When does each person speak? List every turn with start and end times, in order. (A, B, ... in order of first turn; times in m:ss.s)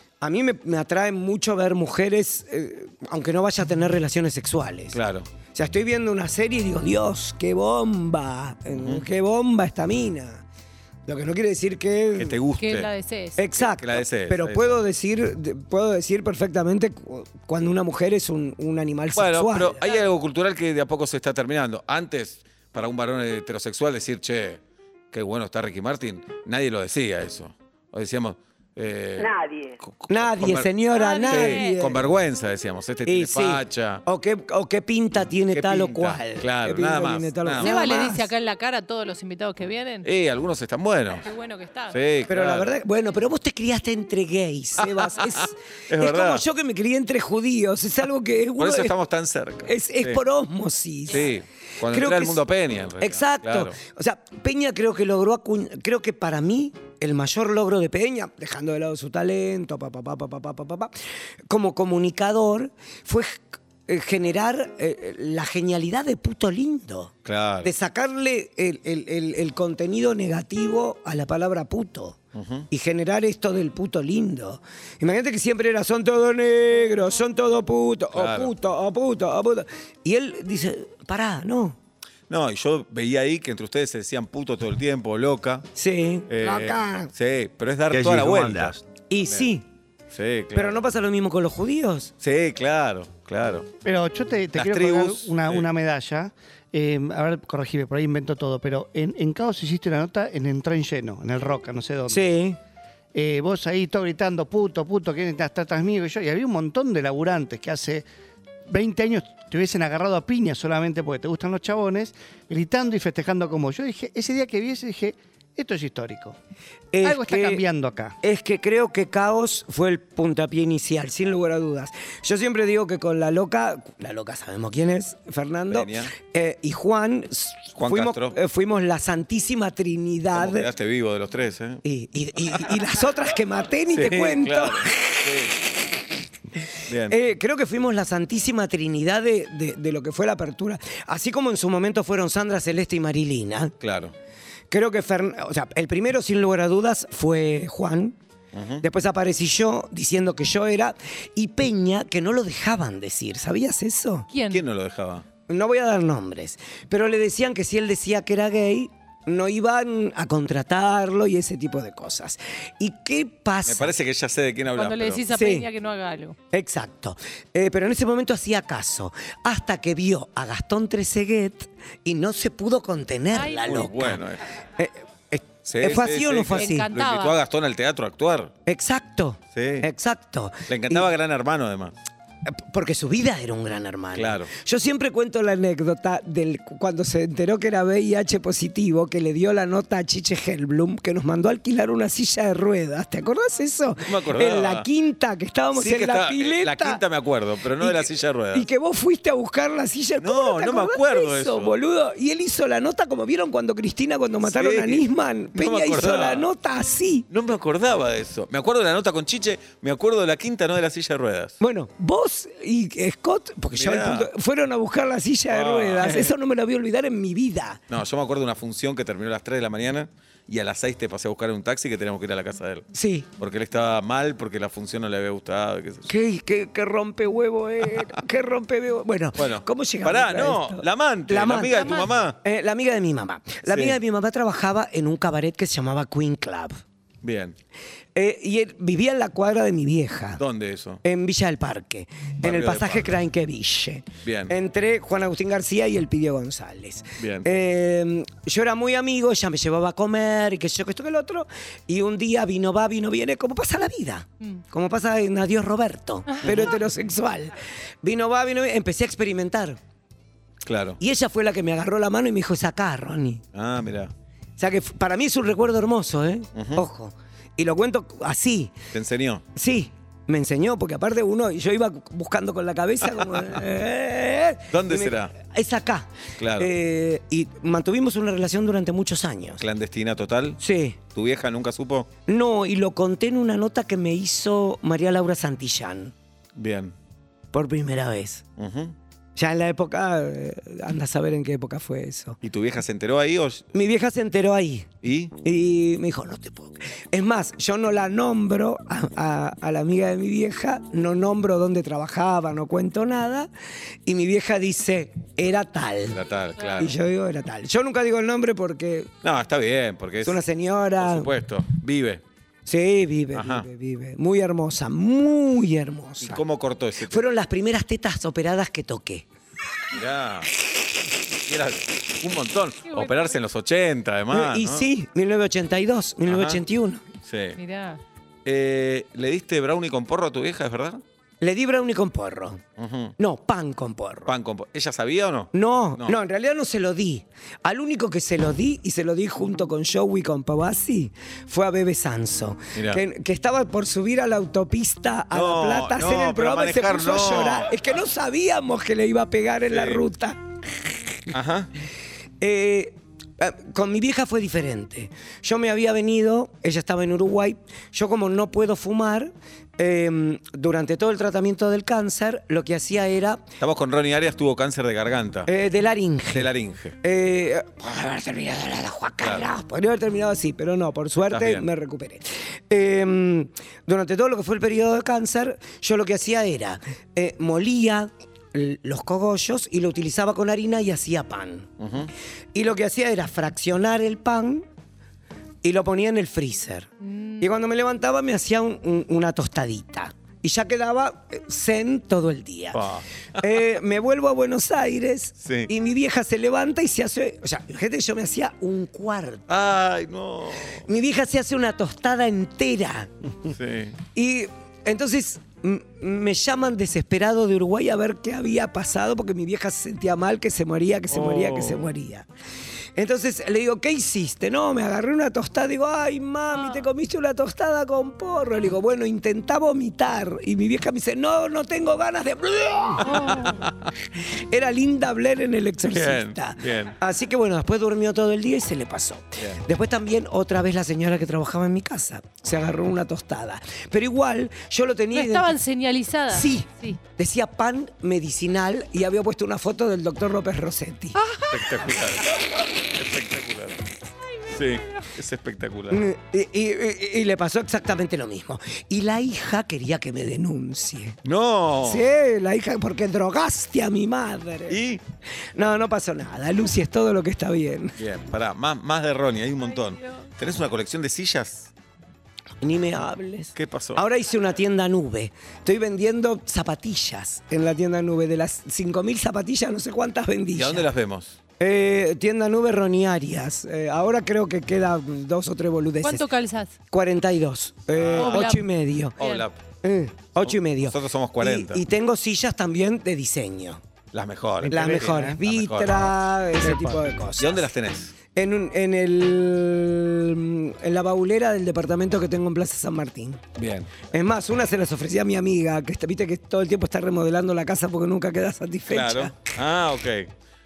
0:00.2-0:05.0 A
0:04.9-0:05.3 B
0:05.5-0:10.4 A
0:08.8-0:09.1 B
0:11.1-0:12.4 A
0:12.2-0:12.9 B
0:12.6-0:13.4 C
0:13.4-0:19.8 A
0:13.5-0:14.8 B
0:19.2-0:24.6 B
0:25.1-0:30.7 B
0:30.1-0:32.1 A
0:30.9-0:31.8 C
0:31.2-0:34.0 B
0:33.0-0:38.3 A
0:35.5-0:37.8 B
0:37.6-0:40.1 C
0:40.0-0:41.3 B
0:41.2-0:42.0 C
0:41.9-0:42.8 B
0:42.3-0:48.9 A
0:44.8-0:46.4 B
0:48.6-0:50.2 B
0:49.6-0:51.3 A
0:51.1-0:53.8 B
0:51.8-0:52.4 A
0:53.0-1:00.9 A
1:01.5-1:12.2 A
1:07.2-1:07.7 B
1:12.3-1:12.7 B
1:12.7-1:21.8 A
1:18.1-1:18.5 B
1:22.3-1:25.7 B
1:25.8-1:27.1 A
1:26.3-1:29.5 B
1:29.1-1:29.6 A
1:30.1-1:30.8 B
1:30.5-1:32.1 A
1:32.2-1:33.7 B
1:33.8-1:42.3 D
1:34.6-1:35.7 B
1:42.1-1:42.6 A
1:43.1-1:48.1 D
1:48.7-1:56.4 D
1:56.9-1:57.6 A
1:57.0-1:58.2 D
1:58.2-2:10.7 A
2:05.7-2:06.1 B
2:07.8-2:08.4 B
2:10.3-2:11.8 B
2:11.8-2:15.3 A
2:12.5-2:12.8 B
2:13.9-2:15.6 B
2:16.9-2:17.2 B
2:17.1-2:23.8 A
2:23.8-2:24.1 B
2:24.7-2:28.2 A
2:28.5-2:28.8 B
2:28.8-2:34.3 A
2:34.3-2:34.6 C
2:34.5-2:35.2 B
2:35.5-2:43.9 A
2:43.6-2:45.3 B
2:44.8-2:46.4 C
2:45.3-2:45.7 A
2:46.5-2:54.2 A
2:53.3-2:53.9 C
2:53.7-2:54.4 B
2:54.8-2:56.9 A
2:55.7-2:58.5 B
2:56.5-2:57.4 C
2:58.7-3:01.0 A
2:59.5-2:59.9 B
3:00.7-3:02.0 B
3:02.5-3:17.0 A
3:04.2-3:04.5 B
3:14.0-3:14.9 B
3:15.8-3:18.7 B
3:17.8-3:27.3 A
3:20.2-3:21.8 B
3:24.4-3:26.5 B
3:27.3-3:31.6 B
3:31.6-3:37.8 A
3:33.7-3:34.3 B
3:35.5-3:36.3 B
3:37.9-3:46.1 B
3:42.9-3:43.3 A
3:46.1-3:56.8 A
3:49.4-3:52.4 B
3:51.8-3:52.1 C
3:53.7-3:54.0 B
3:57.2-3:57.6 B
3:58.2-4:00.4 A
4:00.4-4:01.0 B
4:01.0-4:19.8 A
4:02.4-4:03.2 B
4:04.2-4:04.5 B
4:07.2-4:07.5 B
4:16.3-4:16.5 C
4:16.4-4:16.8 B
4:20.6-4:21.0 B
4:21.0-4:23.4 A
4:23.5-4:24.1 B
4:24.6-4:28.8 A
4:26.6-4:26.8 B
4:28.9-4:29.4 B
4:29.6-4:39.6 A
4:33.0-4:33.6 B
4:34.7-4:35.3 B
4:36.4-4:36.7 B
4:39.6-4:42.1 B
4:40.6-4:41.0 A
4:42.3-4:46.1 A
4:46.6-4:46.9 B
4:47.5-4:48.4 A
4:48.6-4:49.0 B
4:49.4-4:52.4 A
4:52.4-4:53.7 B
4:53.7-4:54.9 A
4:55.0-4:55.3 B
4:55.4-5:03.5 A
5:04.1-5:06.2 A
5:06.1-5:06.9 B
5:06.6-5:06.9 C
5:06.8-5:09.1 A
5:09.2-5:10.4 B
5:10.2-5:11.3 A
5:11.0-5:12.2 B
5:12.7-5:16.4 A
5:13.3-5:13.7 B
5:16.2-5:17.2 B
5:17.1-5:19.3 A
5:19.9-5:20.5 B
5:21.5-5:24.9 B
5:22.9-5:23.3 C
5:24.3-5:27.0 A
5:26.3-5:26.6 B
5:27.2-5:27.6 B
5:27.6-5:28.0 C
5:28.4-5:31.0 B
5:31.4-5:32.6 A
5:32.8-5:33.2 B
5:33.2-5:34.3 A
5:34.3-5:36.2 B
5:35.5-5:50.4 A
5:42.8-5:43.0 B
5:45.3-5:47.7 B
5:49.7-5:50.0 B
5:51.3-5:51.7 B
5:52.4-6:03.4 A
6:03.6-6:05.5 B
6:05.5-6:06.5 A
6:06.3-6:07.0 B
6:07.0-6:21.7 A
6:09.2-6:09.5 B
6:11.3-6:11.7 B
6:21.8-6:22.1 B
6:22.5-6:24.7 A
6:25.6-6:26.9 A
6:27.1-6:27.4 C
6:27.4-6:32.8 A
6:32.7-6:33.5 B
6:33.4-6:39.5 A
6:35.4-6:35.7 B
6:39.5-6:40.8 B
6:40.8-6:43.1 A
6:43.4-6:44.0 B
6:44.2-6:52.3 A
6:51.1-6:51.9 B
6:53.0-7:03.7 A
7:03.0-7:03.9 B
7:03.1-7:03.6 C
7:04.2-7:15.6 A
7:05.9-7:07.0 B
7:15.1-7:17.0 C
7:16.3-7:21.2 A
7:21.2-7:21.6 C
7:21.5-7:23.8 B
7:24.5-7:26.0 B
7:25.9-7:31.2 A
7:31.2-7:32.1 B
7:31.8-7:34.8 A
7:34.7-7:35.0 B
7:35.6-7:38.0 A
7:38.0-7:41.7 B
7:42.6-7:50.9 A
7:43.6-7:44.0 B
7:50.6-7:51.4 B
7:51.6-7:56.3 A
7:56.0-7:56.8 C
7:56.9-7:59.2 A
7:58.0-7:58.6 B
7:58.2-7:58.7 C
7:59.2-7:59.6 B
7:59.2-7:59.5 C
7:59.8-8:03.8 A
8:00.4-8:01.8 B
8:04.1-8:08.1 B
8:04.6-8:07.7 A
8:04.7-8:05.4 D
8:08.3-8:13.4 A
8:13.6-8:13.9 B
8:14.1-8:19.5 A
8:18.9-8:20.3 B